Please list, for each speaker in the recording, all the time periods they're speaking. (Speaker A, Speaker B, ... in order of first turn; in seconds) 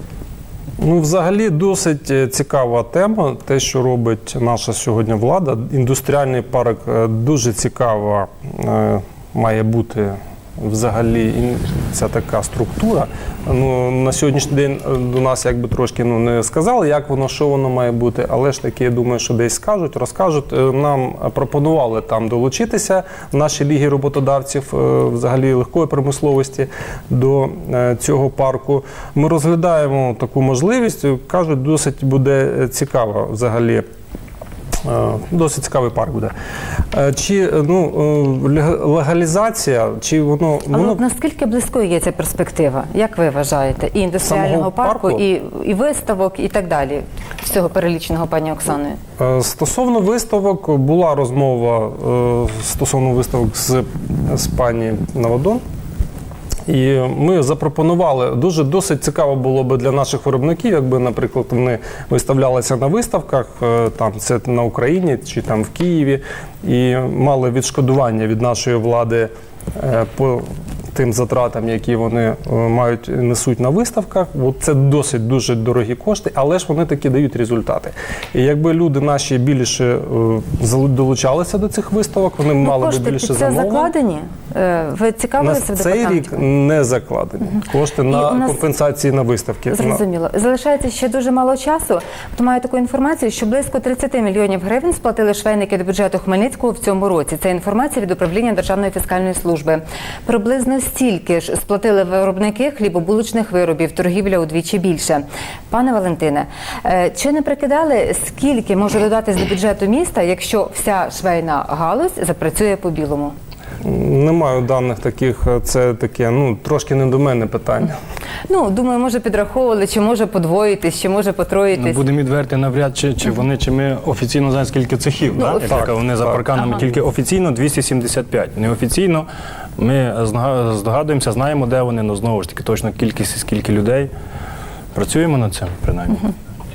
Speaker A: 0.8-33.9, 34.8-36.3, 36.9-41.0, 44.2-45.2, 49.2-55.6, 56.6-83.9, 85.4-90.0, 113.8-118.0, 125.5-126.8
Speaker B: 40.7-49.0, 82.6-86.4, 88.1-88.6, 89.7-113.3, 118.5-122.0
Speaker C: 121.8-129.2, 129.8-134.1, 134.9-136.2